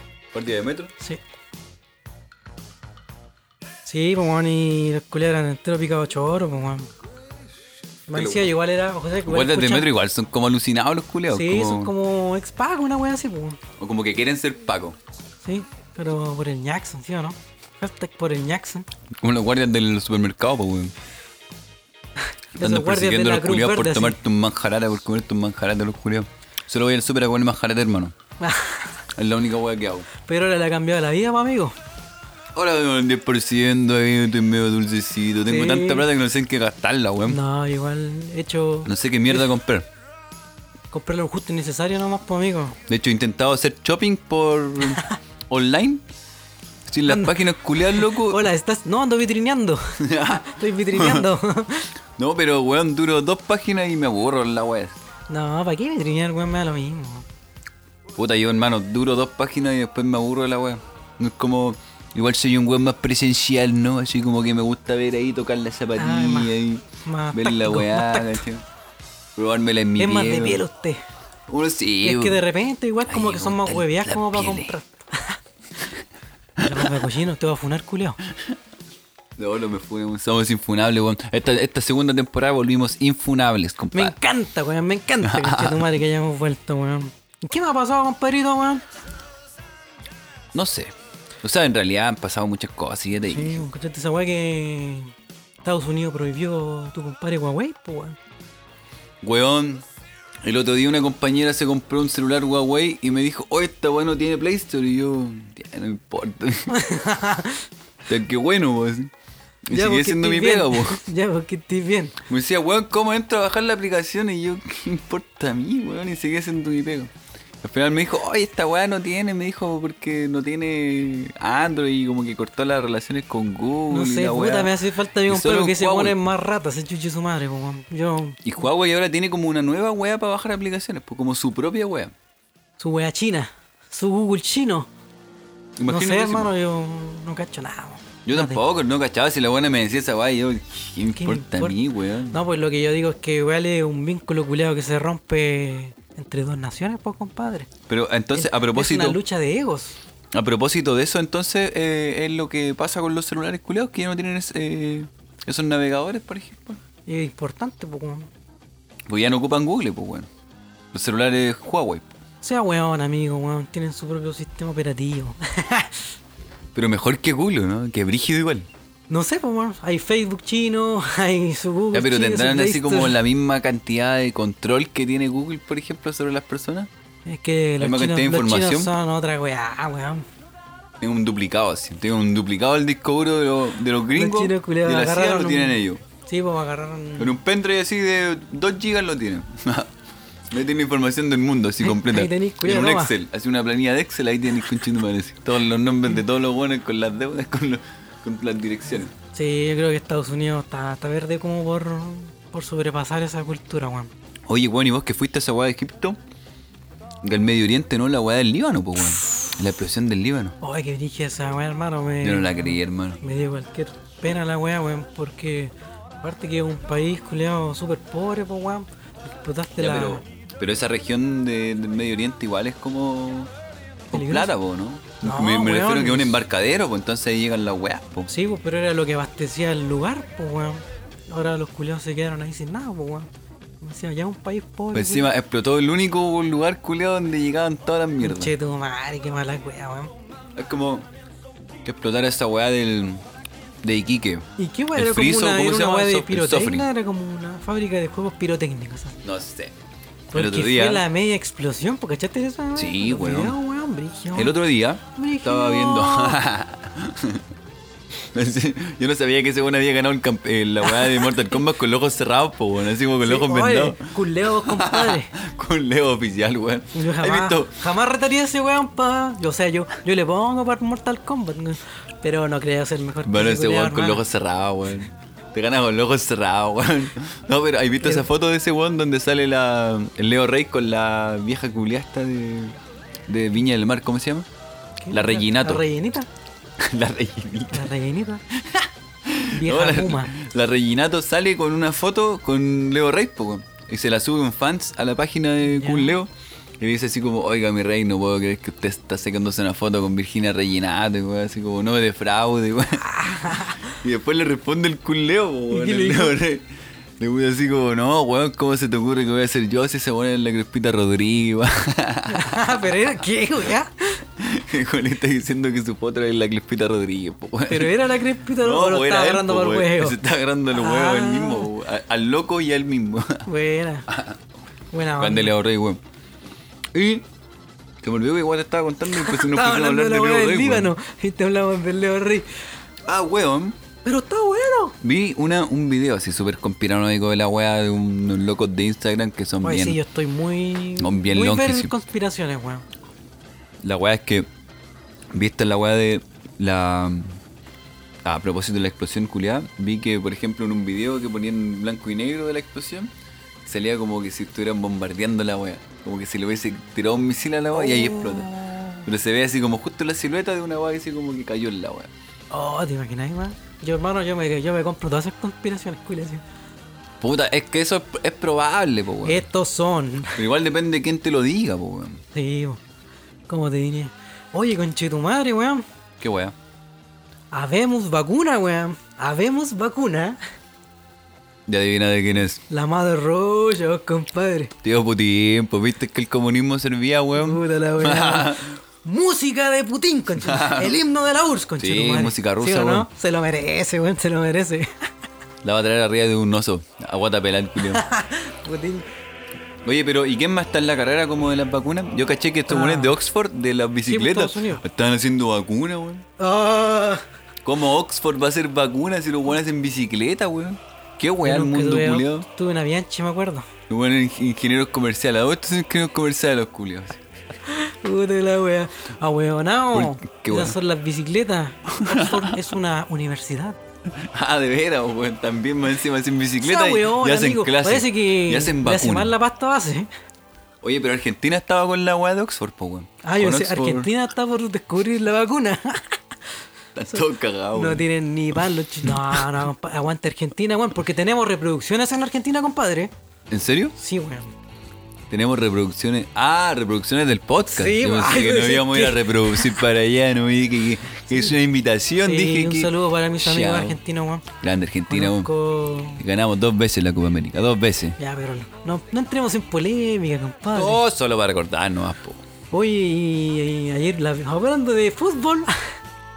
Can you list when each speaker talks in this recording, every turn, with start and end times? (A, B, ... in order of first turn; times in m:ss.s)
0:00.3-0:00.9 A
0:03.9-0:06.9 B
0:08.1-0:09.9 B
0:08.1-0:08.5 A
0:09.2-0:11.9 A
0:11.3-0:13.6 B
0:13.8-0:15.0 A
0:15.4-0:18.9 B
0:19.2-0:20.9 A
0:22.6-0:24.2 B
0:22.6-0:28.2 A
0:28.4-0:29.0 B
0:29.2-0:30.1 A
0:30.3-0:31.7 B
0:32.6-0:37.4 A
0:35.4-0:36.1 B
0:37.3-0:39.5 B
0:38.8-0:39.9 A
0:40.9-0:42.8 B
0:42.9-0:46.0 A
0:46.9-0:48.4 A
0:47.1-0:51.9 B
0:50.0-0:51.3 A
0:52.2-0:55.0 A
0:55.3-0:57.3 B
0:58.2-1:08.6 A
1:06.0-1:08.4 B
1:09.4-1:10.6 A
1:10.0-1:11.0 B
1:11.5-1:12.4 A
1:12.0-1:15.4 B
1:13.1-1:14.7 A
1:16.6-1:17.0 A
1:16.6-1:18.2 B
1:19.4-1:24.1 A
1:23.9-1:28.8 B
1:25.2-1:25.9 A
1:30.5-1:33.6 A
1:33.3-1:35.1 B
1:35.6-1:38.2 B
1:39.2-1:39.8 A
1:40.4-1:46.8 A
1:46.7-1:47.6 B
1:48.1-1:49.1 A
1:49.7-1:51.0 A
1:49.7-1:52.2 B
1:52.3-1:57.1 A
1:57.6-2:06.2 A
2:03.9-2:08.4 B
2:08.4-2:12.1 A
2:12.8-2:14.9 B
2:15.8-2:16.5 A
2:15.9-2:18.6 B
2:18.3-2:22.4 A
2:21.2-2:21.8 B
2:22.3-2:27.7 B
2:27.9-2:29.2 A
2:28.3-2:30.0 B
2:30.3-2:36.8 A
2:37.1-2:38.3 B
2:39.1-2:40.3 A
2:40.9-2:42.1 A
2:42.4-2:45.9 B
2:46.7-2:48.7 A
2:49.1-2:53.2 B
2:51.9-2:56.9 A
2:57.3-3:00.2 B
2:57.8-2:58.9 A
3:01.0-3:06.0 A
3:04.2-3:07.4 B
3:07.2-3:09.9 A
3:10.5-3:19.1 A
3:11.8-3:13.1 B
3:19.2-3:24.1 B
3:24.5-3:26.2 A
3:27.2-3:30.6 A
3:30.6-3:40.2 B
3:32.2-3:33.2 A
3:39.8-3:43.5 A
3:44.1-3:44.5 B
3:44.1-3:48.3 A
3:45.2-3:46.4 B
3:48.3-3:53.3 B
3:53.8-3:55.3 B
3:54.9-3:58.6 A
3:58.2-4:00.1 B
4:00.6-4:01.1 A
4:01.8-4:03.2 A
4:03.8-4:06.9 A
4:04.6-4:09.2 B
4:09.2-4:09.8 A
4:10.3-4:14.6 B
4:10.3-4:11.0 A
4:12.8-4:13.6 A
4:14.3-4:17.4 A
4:15.1-4:16.4 B
4:18.3-4:27.8 A
4:20.9-4:21.4 B
4:23.2-4:25.3 B
4:26.9-4:34.2 B
4:33.2-4:42.8 A
4:38.0-4:38.3 B
4:43.3-4:44.5 A
4:45.0-4:46.3 B
4:45.1-4:45.8 A
4:46.8-4:47.9 A
4:47.7-4:48.4 B
4:49.3-5:12.8 A
4:49.5-4:50.3 B
4:55.6-4:56.2 B
5:03.0-5:03.8 B
5:05.7-5:06.4 B
5:12.3-5:14.2 B
5:14.4-5:23.5 A
5:17.7-5:20.2 B
5:20.7-5:21.7 B
5:23.5-5:24.1 B
5:24.1-5:24.4 A
5:24.9-5:25.5 B
5:25.2-5:26.0 A
5:26.9-5:27.3 A
5:28.0-5:30.9 A
5:29.1-5:32.5 B
5:33.0-5:33.8 A
5:34.0-5:35.0 B
5:35.0-5:40.0 A
5:39.6-5:42.8 B
5:41.0-5:41.9 A
5:43.8-5:44.5 A
5:45.3-5:47.4 A
5:48.2-5:53.1 A
5:53.6-5:58.5 A
5:57.7-5:59.0 B
5:59.0-6:02.1 A
6:02.5-6:06.4 B
6:07.2-6:09.4 A
6:09.2-6:10.4 B
6:10.4-6:12.2 A
6:12.3-6:12.8 B
6:13.5-6:15.8 B
6:16.2-6:16.6 A
6:17.5-6:20.4 B
6:21.7-6:22.6 A
6:22.7-6:24.7 B
6:24.8-6:28.7 A
6:27.4-6:34.9 B
6:30.4-6:31.0 A
6:31.8-6:33.1 A
6:35.6-6:38.0 A
6:37.9-6:39.1 B
6:39.8-6:46.3 A
6:42.7-6:43.2 B
6:44.0-6:44.8 B
6:46.4-6:47.2 B
6:47.6-6:52.5 A
6:51.4-6:53.7 B
6:53.9-6:57.2 A
6:57.7-7:03.8 B
6:59.9-7:00.8 A
7:02.0-7:02.6 A
7:04.1-7:09.4 A
7:06.6-7:10.1 B
7:10.8-7:14.1 A
7:13.2-7:16.2 B
7:17.0-7:18.1 A
7:17.1-7:23.1 B
7:19.1-7:19.4 A
7:23.5-7:24.0 A
7:24.0-7:24.5 B
7:25.3-7:34.0 A
7:27.7-7:29.8 B
7:32.2-7:34.5 B
7:34.6-7:35.5 A
7:35.1-7:36.2 B
7:36.2-7:38.2 A
7:38.2-7:41.0 B
7:40.7-7:42.4 A
7:42.7-7:45.8 B